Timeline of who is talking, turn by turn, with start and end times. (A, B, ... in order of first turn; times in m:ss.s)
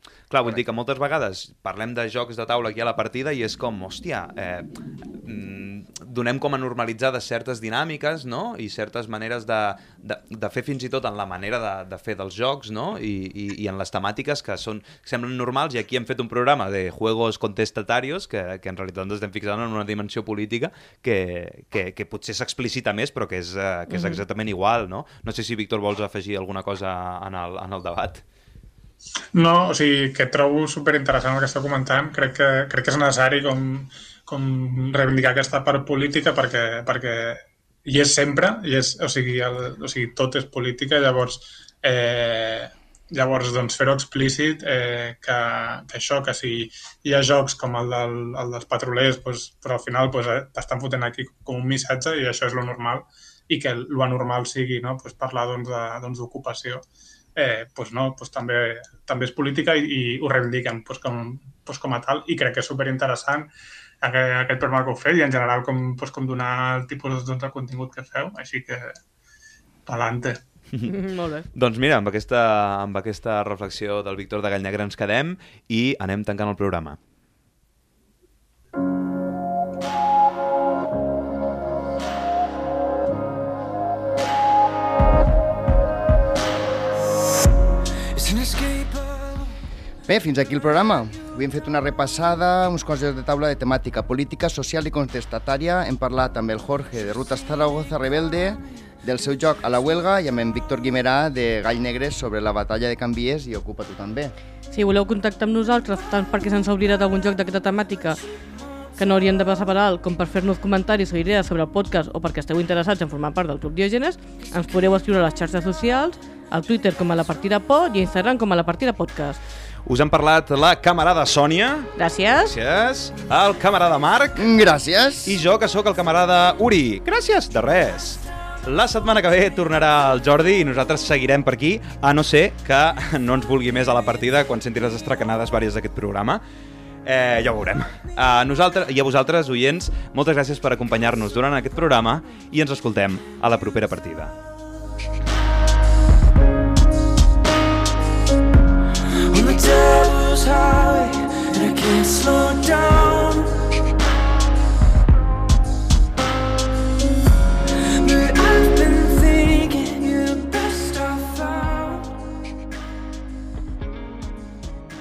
0:00.3-0:04.7 A
0:05.2-0:28.2 A
0:29.4-0:56.8 B
0:57.4-1:03.5 B
1:04.0-1:09.0 B
1:09.9-1:10.4 B
1:10.9-1:11.5 C
1:11.5-1:17.0 A
1:28.2-1:29.4 D
1:30.1-1:44.3 E
1:44.7-1:48.2 C
1:49.0-1:59.4 C
1:59.9-2:01.9 A
2:02.0-2:02.6 C
2:02.4-2:04.5 A
2:04.4-2:05.4 E
2:05.3-2:16.4 A
2:17.0-2:24.4 A
2:29.3-2:33.5 D
2:38.0-2:42.1 D